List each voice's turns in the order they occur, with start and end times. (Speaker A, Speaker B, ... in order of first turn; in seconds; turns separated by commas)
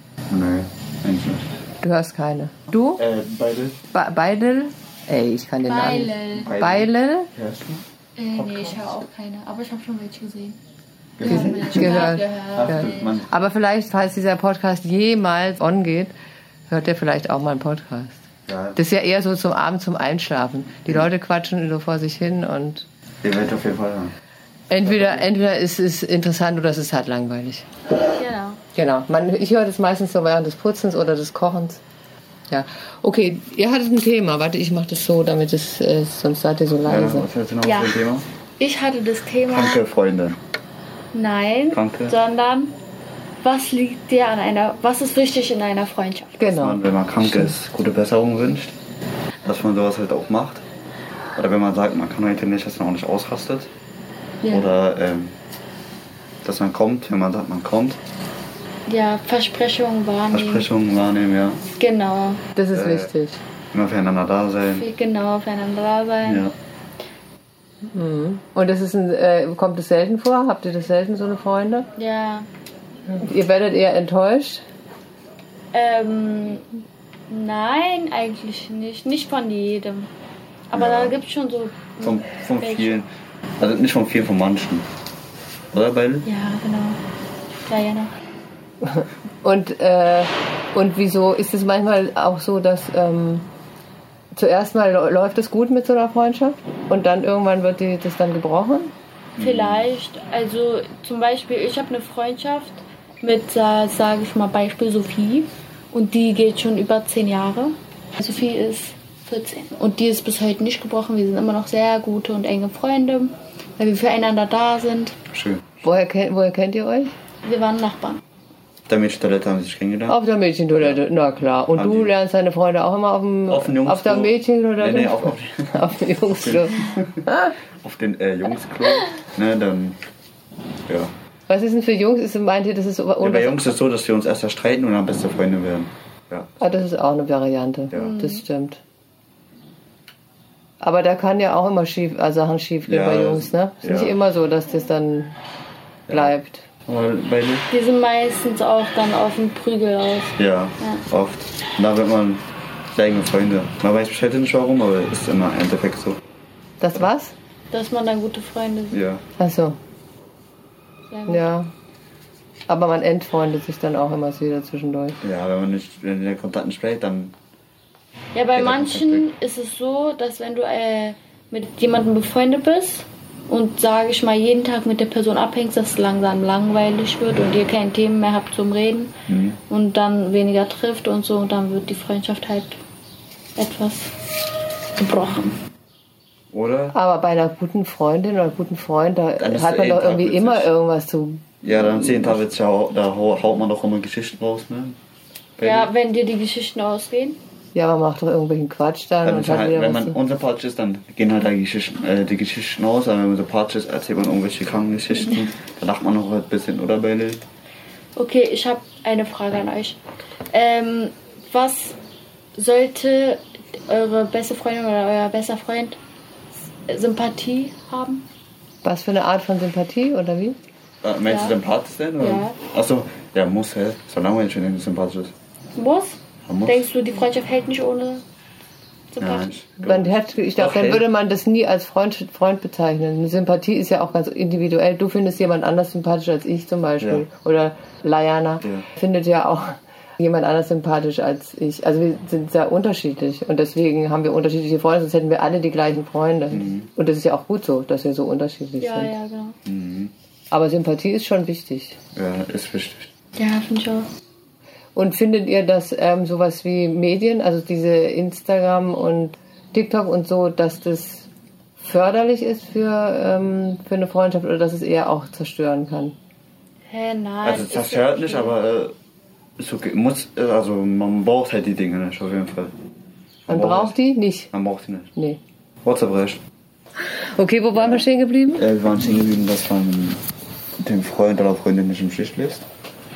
Speaker A: 0.3-1.5, Speaker B: 1.8-3.0, Speaker A: 3.0-3.8, Speaker B: 3.9-7.3, Speaker C: 5.7-6.5, Speaker A: 6.4-7.8, Speaker C: 8.2-10.6, Speaker A: 8.4-8.8, Speaker A: 11.2-13.3, Speaker C: 11.2-13.1, Speaker B: 11.2-16.1, Speaker B: 16.7-18.2, Speaker A: 18.5-18.8, Speaker B: 18.8-22.9, Speaker A: 23.2-24.1, Speaker B: 24.7-27.7, Speaker A: 24.8-25.3, Speaker C: 28.1-28.6, Speaker B: 28.7-31.8, Speaker B: 32.5-37.3, Speaker A: 36.8-38.3, Speaker C: 37.6-38.0, Speaker C: 38.6-39.8, Speaker A: 39.5-40.4, Speaker C: 41.1-42.8, Speaker A: 41.7-42.2, Speaker C: 43.4-46.4, Speaker B: 46.4-47.5, Speaker A: 46.5-48.8, Speaker A: 49.4-50.6, Speaker A: 51.4-53.7, Speaker A: 54.5-55.4, Speaker A: 56.4-58.0, Speaker C: 58.9-60.7, Speaker A: 60.3-61.6, Speaker C: 61.8-62.4, Speaker B: 62.5-63.4, Speaker A: 62.7-63.1, Speaker A: 63.7-64.9, Speaker C: 64.7-66.5, Speaker A: 66.2-66.5, Speaker B: 67.9-71.9, Speaker C: 72.0-72.5, Speaker B: 73.1-74.6, Speaker C: 75.7-76.7, Speaker C: 77.3-80.1, Speaker C: 80.7-83.0, Speaker A: 80.7-81.1, Speaker A: 82.0-83.1, Speaker A: 83.6-84.9, Speaker A: 85.7-86.3, Speaker C: 86.2-87.0, Speaker C: 87.7-88.1, Speaker B: 88.8-93.5, Speaker B: 94.3-98.9, Speaker A: 99.4-99.9, Speaker C: 99.4-115.2, Speaker A: 115.3-115.6, Speaker B: 115.8-117.1, Speaker C: 117.4-118.2, Speaker A: 118.9-120.2, Speaker B: 120.1-127.5, Speaker A: 121.7-122.1, Speaker A: 123.5-125.8, Speaker A: 126.4-127.2, Speaker A: 127.8-130.0, Speaker A: 130.9-131.1, Speaker B: 131.5-133.7, Speaker A: 133.2-136.5, Speaker B: 136.6-138.8, Speaker A: 137.9-138.2, Speaker C: 138.0-138.4, Speaker B: 140.8-145.3, Speaker A: 142.9-144.1, Speaker A: 146.1-146.3, Speaker B: 146.1-146.7, Speaker A: 146.9-147.7, Speaker C: 147.7-151.0, Speaker A: 150.4-156.2, Speaker B: 156.8-157.3, Speaker C: 157.7-159.0, Speaker A: 158.9-159.2, Speaker B: 159.4-159.8, Speaker C: 161.1-161.4, Speaker B: 161.3-161.7, Speaker B: 162.7-165.2, Speaker A: 165.2-167.3, Speaker C: 168.3-179.1, Speaker A: 168.5-169.3, Speaker A: 179.3-179.6, Speaker C: 179.7-182.8, Speaker C: 183.6-184.3, Speaker C: 185.0-185.6, Speaker A: 186.5-187.0, Speaker B: 186.9-192.3, Speaker A: 189.4-190.7, Speaker A: 191.6-195.0, Speaker A: 195.6-195.9, Speaker C: 195.6-197.4, Speaker B: 197.7-200.2, Speaker A: 199.2-207.5, Speaker C: 208.2-210.0, Speaker C: 210.5-212.0, Speaker C: 212.6-216.0, Speaker C: 216.9-218.2, Speaker B: 218.8-220.6, Speaker A: 221.0-225.3, Speaker C: 221.3-221.6, Speaker C: 222.2-222.6, Speaker C: 225.8-228.2, Speaker A: 226.4-226.8, Speaker C: 229.1-229.5, Speaker A: 229.2-231.1, Speaker B: 229.8-249.1, Speaker A: 237.0-237.2, Speaker A: 238.6-238.9, Speaker A: 246.5-246.9, Speaker C: 248.8-249.6, Speaker A: 249.7-250.1, Speaker B: 250.5-252.0, Speaker A: 252.2-253.1, Speaker C: 253.4-254.1, Speaker B: 254.9-261.3, Speaker B: 261.8-266.2, Speaker C: 266.9-268.6, Speaker A: 267.4-268.9, Speaker A: 269.6-272.7, Speaker A: 273.5-274.0, Speaker B: 273.5-274.5, Speaker A: 274.5-275.1, Speaker A: 275.8-276.4, Speaker B: 277.0-278.6, Speaker A: 278.5-280.2, Speaker A: 280.8-282.7